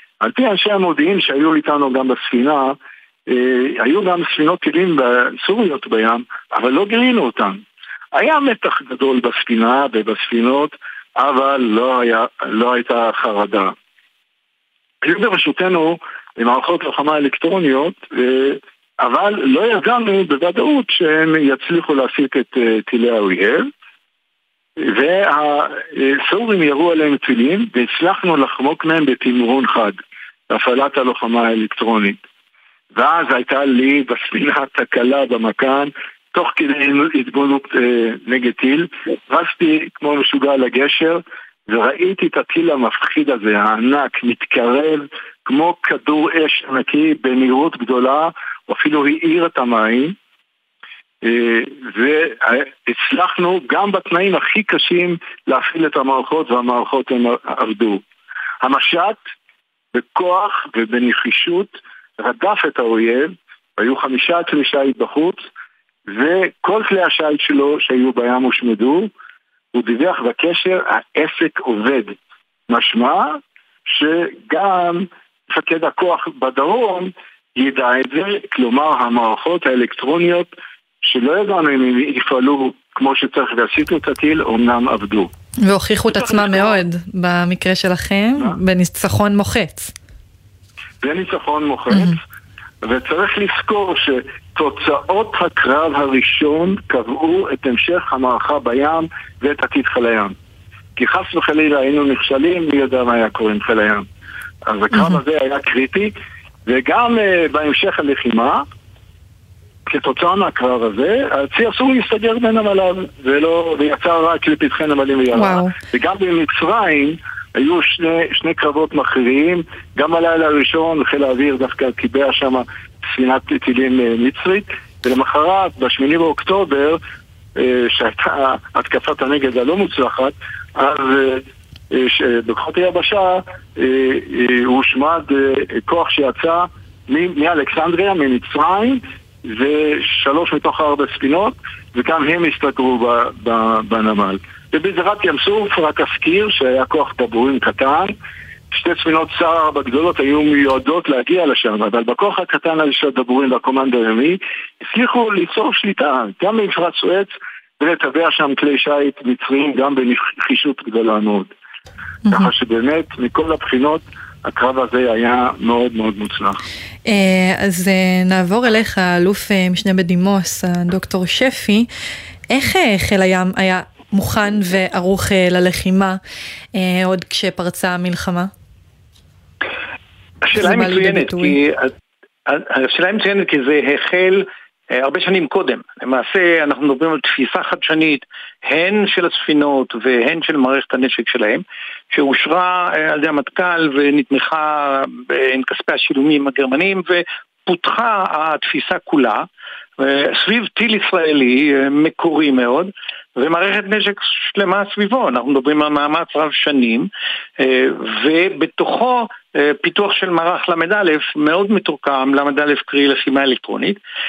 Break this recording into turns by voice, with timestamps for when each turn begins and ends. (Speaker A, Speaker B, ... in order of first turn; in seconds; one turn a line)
Speaker A: 0.2-2.8
Speaker A: 3.3-13.7
Speaker A: 15.0-23.7
Speaker A: 24.8-30.0
Speaker A: 30.5-32.2
Speaker A: 32.9-50.2
Speaker A: 51.2-58.0
Speaker A: 58.6-59.2
Speaker A: 59.9-65.5
Speaker A: 66.1-69.1
Speaker A: 69.7-72.2
Speaker A: 72.7-85.3
Speaker B: 85.7-89.9
Speaker A: 91.0-92.2
Speaker A: 92.8-100.4
Speaker A: 101.0-104.1
Speaker A: 104.7-106.1
Speaker A: 106.7-108.7
Speaker A: 109.9-127.0
Speaker B: 115.3-115.8
Speaker A: 127.6-148.2
Speaker A: 148.7-161.5
Speaker A: 162.3-166.6
Speaker B: 167.1-171.9
Speaker B: 172.5-176.2
Speaker B: 176.8-178.5
Speaker C: 180.4-181.9
Speaker B: 180.6-181.6
Speaker C: 182.5-199.5
Speaker C: 200.0-207.1
Speaker C: 207.6-214.0